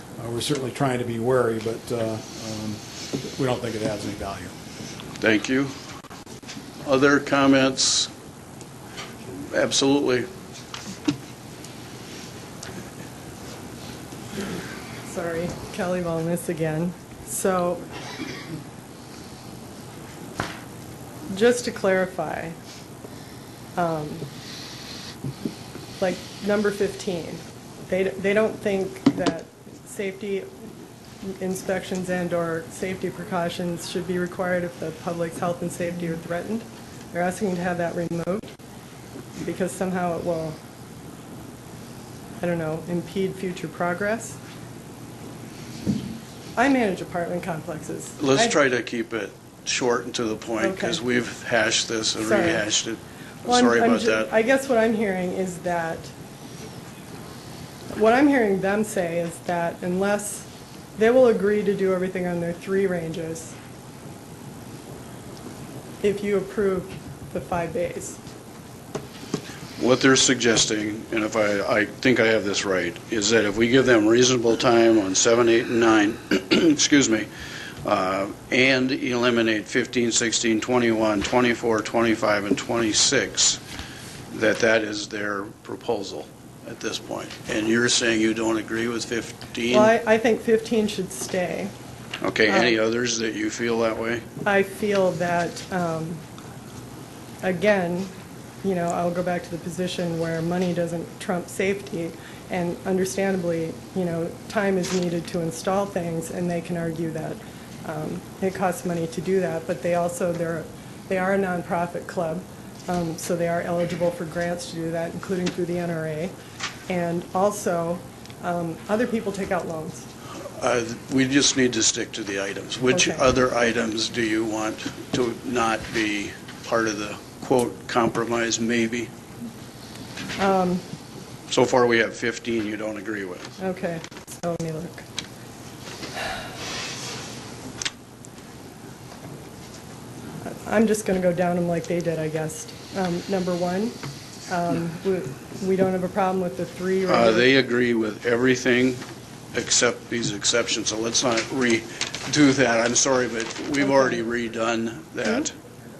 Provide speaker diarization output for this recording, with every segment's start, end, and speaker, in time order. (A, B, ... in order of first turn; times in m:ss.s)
0:00.2-0:04.5 A
0:05.2-0:05.7 B
0:06.8-0:08.1 B
0:09.5-0:10.3 B
0:15.0-0:17.8 C
0:21.3-0:22.6 C
0:23.8-0:24.3 C
0:26.0-0:30.5 C
0:31.2-0:38.5 C
0:39.4-0:40.6 C
0:42.4-0:44.4 C
0:46.6-0:48.6 C
0:48.2-0:54.3 B
0:50.6-0:51.0 C
0:52.2-0:52.6 C
0:53.4-0:56.1 C
0:57.9-1:03.5 C
1:06.0-1:08.2 C
1:09.8-1:17.3 B
1:17.8-1:23.6 B
1:24.3-1:29.9 B
1:29.7-1:31.7 C
1:32.2-1:34.2 B
1:32.5-1:32.7 C
1:34.4-1:36.2 C
1:37.4-1:56.3 C
1:56.9-2:00.0 C
2:00.6-2:09.1 B
2:02.9-2:03.2 C
2:10.4-2:10.8 C
2:11.5-2:13.5 B
2:13.6-2:15.0 C
2:20.4-2:24.0 C
2:24.5-2:27.5 C
2:27.1-2:29.0 B
2:29.5-2:35.5 B
2:33.8-2:34.2 C